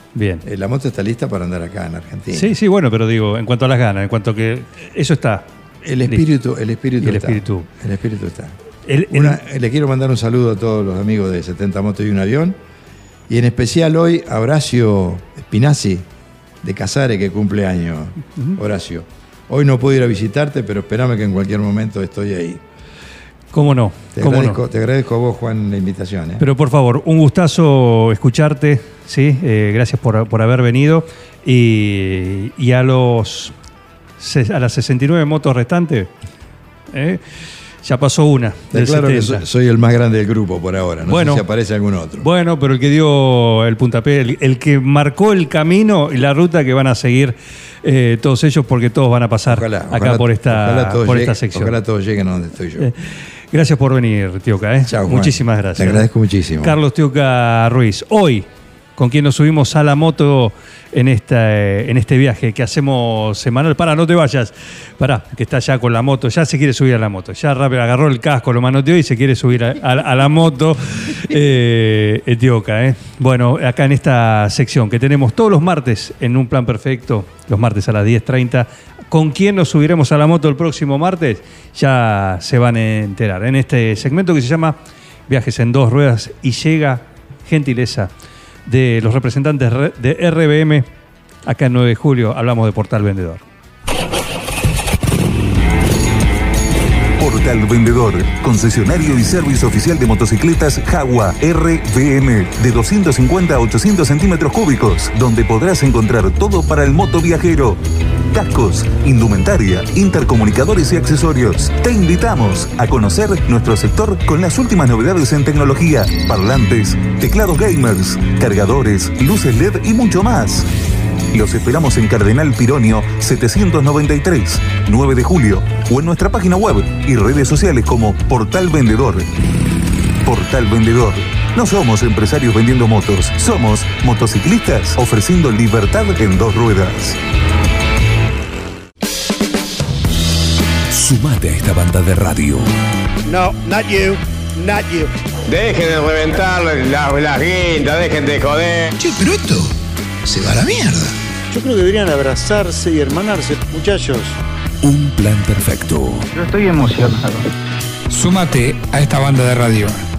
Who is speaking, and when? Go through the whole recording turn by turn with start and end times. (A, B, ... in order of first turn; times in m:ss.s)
0:00.1-0:00.4 A
0:00.4-0:02.6 B
0:02.3-0:05.5 A
0:05.8-0:08.6 B
0:07.0-0:07.7 A
0:08.9-0:09.4 A
0:09.1-0:12.6 B
0:13.3-0:16.1 B
0:16.6-0:22.6 B
0:23.5-0:24.6 A
0:24.2-0:26.5 B
0:26.4-0:33.5 A
0:34.2-0:36.1 A
0:36.9-0:37.2 A
0:37.8-0:39.4 A
0:38.7-0:42.3 B
0:41.1-0:41.4 A
0:42.2-0:51.8 A
0:49.5-0:52.9 B
0:52.8-0:56.1 A
0:54.8-0:56.8 B
0:56.6-1:28.1 A
1:28.7-1:30.9 A
1:31.4-1:33.4 A
1:37.2-2:00.7 C
2:01.3-2:09.3 C
2:10.2-2:17.2 C
2:20.9-2:22.7 D
2:23.2-2:25.1 E
2:25.5-2:29.0 F
2:29.0-2:29.7 G
2:30.3-2:31.1 G
2:31.5-2:34.4 E
2:34.8-2:36.3 D
2:36.6-2:37.4 H
2:38.2-2:39.9 G
2:38.2-2:40.0 H